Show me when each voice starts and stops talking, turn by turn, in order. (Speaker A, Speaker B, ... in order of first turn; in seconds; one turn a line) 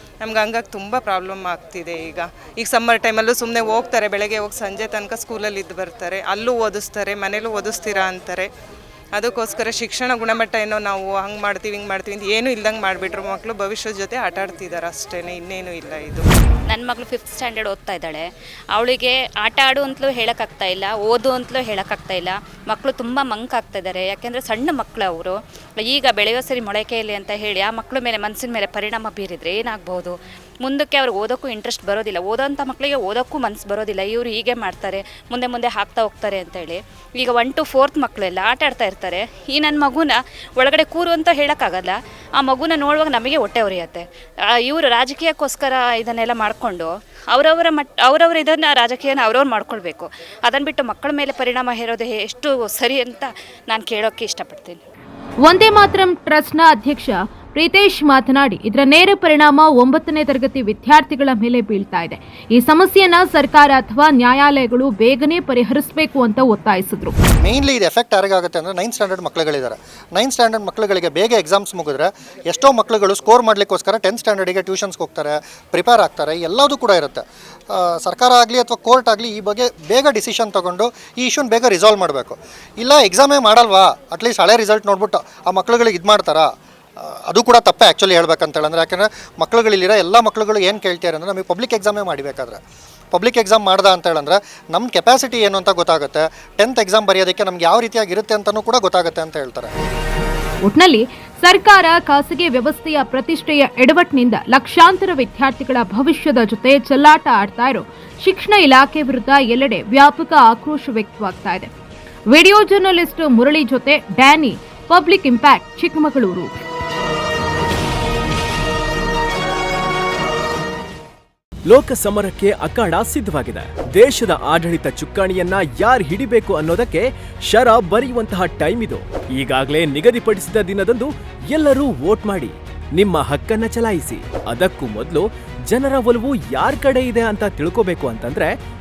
Speaker A: 0.2-8.5
Speaker A: 9.2-16.2
Speaker B: 16.7-44.0
Speaker B: 44.6-54.8
Speaker C: 55.4-67.1
Speaker D: 67.4-86.5
Speaker D: 87.0-92.6
Speaker D: 93.1-99.7
Speaker C: 100.6-111.7
Speaker C: 112.3-116.5
Speaker E: 121.7-138.5